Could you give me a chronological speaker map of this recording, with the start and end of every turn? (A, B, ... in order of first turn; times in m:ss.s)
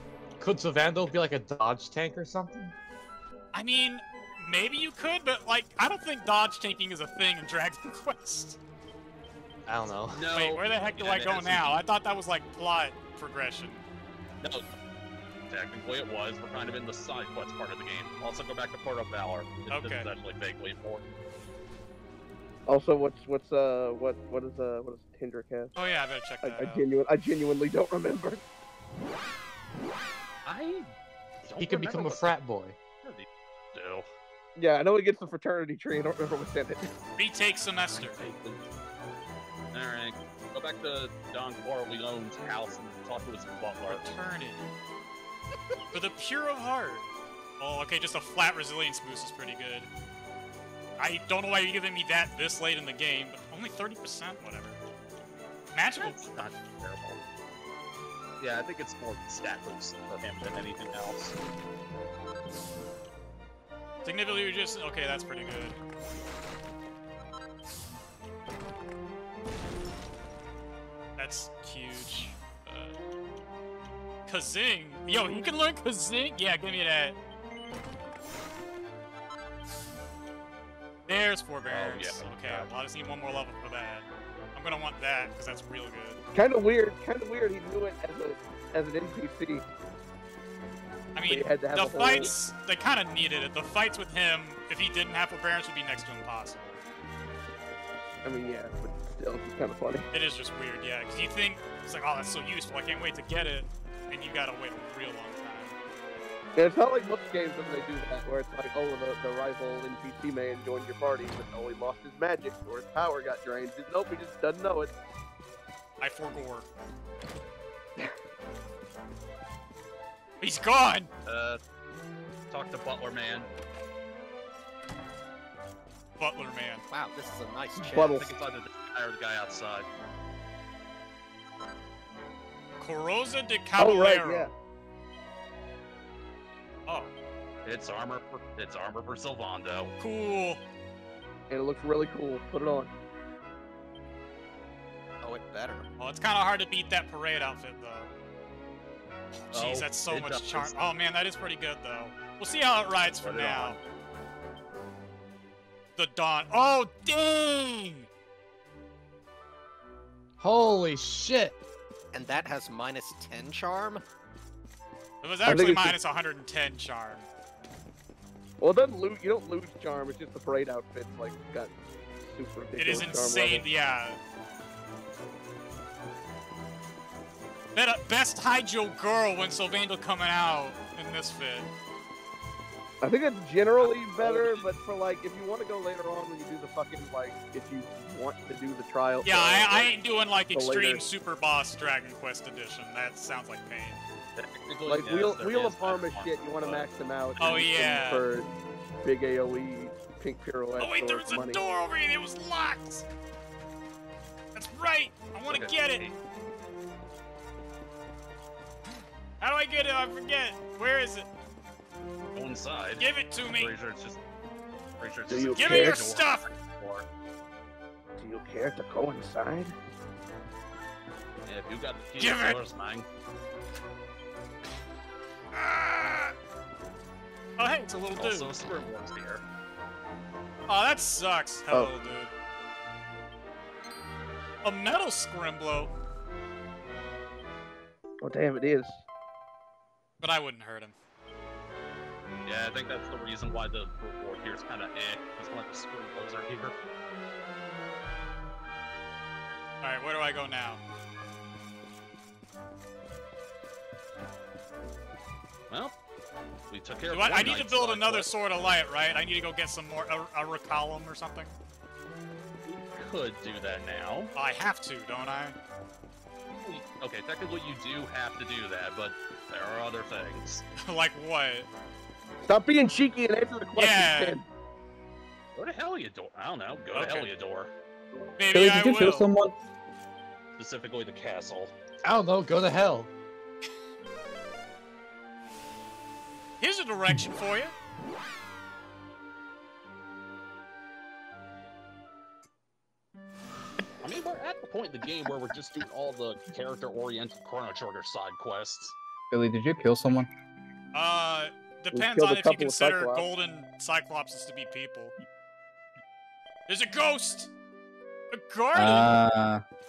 0:00.4-0:02.8 A
0:03.5-0:08.6 B
0:09.7-0:10.3 A
0:10.1-0:11.8 C
0:10.3-0:13.8 B
0:15.5-0:21.1 C
0:19.7-0:20.1 B
0:22.7-0:25.7 D
0:25.8-0:26.8 B
0:26.4-0:28.4 D
0:30.4-0:30.9 C
0:31.4-0:32.4 C
0:31.6-0:32.8 A
0:33.0-0:34.1 C
0:34.6-0:36.9 D
0:37.2-0:38.2 B
0:38.0-0:38.6 C
0:39.7-0:44.1 C
0:43.9-0:44.7 B
0:45.9-0:47.1 B
0:47.6-0:49.9 B
0:51.0-0:54.8 B
0:55.7-0:56.2 B
0:56.0-0:57.2 C
0:58.4-1:01.4 C
1:04.0-1:05.8 B
1:11.2-1:13.0 B
1:14.3-1:17.2 B
1:21.1-1:26.2 B
1:21.7-1:22.7 C
1:26.3-1:29.6 D
1:31.2-1:36.8 B
1:31.3-1:32.3 D
1:38.2-1:40.1 D
1:40.1-1:45.8 B
1:46.6-1:54.9 D
1:56.0-1:56.7 B
2:00.4-2:01.1 B
2:01.3-2:01.6 C
2:02.5-2:03.5 C
2:06.2-2:06.8 B
2:06.9-2:08.3 E
2:07.8-2:08.2 D
2:08.2-2:09.9 C
2:12.8-2:14.5 B
2:13.8-2:14.5 D
2:17.6-2:20.0 C
2:20.0-2:20.6 B
2:21.5-2:22.9 D
2:25.2-2:25.9 E
2:26.0-2:28.1 B
2:29.3-2:33.8 B
2:29.5-2:30.8 C
2:33.2-2:33.8 C
2:36.0-2:38.1 B
2:40.4-2:41.6 A
2:42.1-2:44.0 E
2:45.2-2:47.3 B
2:45.5-2:46.0 D
2:48.6-2:53.6 D
2:52.8-2:54.2 B
2:57.8-3:01.7 B
3:03.0-3:09.9 D
3:04.2-3:04.5 B
3:09.2-3:14.0 B
3:10.5-3:11.0 D
3:14.4-3:17.4 C
3:14.9-3:18.5 D
3:17.4-3:18.2 B
3:19.0-3:21.6 D
3:20.8-3:23.0 B
3:24.6-3:26.1 B
3:25.5-3:26.1 C
3:29.4-3:31.3 B
3:32.4-3:34.2 C
3:33.0-3:33.7 B
3:35.0-3:37.0 C
3:35.3-3:36.0 D
3:35.6-3:36.4 B
3:38.2-3:39.7 D
3:41.5-3:43.1 C
3:42.2-3:42.6 B
3:47.6-3:48.5 B
3:48.2-3:49.4 C
3:50.7-3:52.3 B
3:54.6-3:55.9 B
3:58.2-3:59.0 D
4:00.2-4:01.0 B
4:02.5-4:06.8 C
4:09.8-4:10.8 B
4:15.7-4:16.0 C
4:16.7-4:18.3 C
4:17.1-4:21.6 B
4:22.7-4:24.3 C
4:24.4-4:25.6 B
4:26.6-4:30.6 C
4:30.8-4:31.7 B
4:32.4-4:34.5 D
4:33.8-4:34.4 B
4:35.6-4:37.7 C
4:37.0-4:37.3 B
4:38.4-4:39.3 B
4:38.5-4:39.5 F
4:40.6-4:41.7 C
4:42.0-4:43.1 A
4:46.6-4:47.8 B
4:54.0-4:59.0 C
4:59.3-5:00.3 F
5:00.9-5:05.1 B
5:01.9-5:03.2 D
5:06.7-5:07.5 B
5:08.3-5:09.2 B
5:08.7-5:09.6 F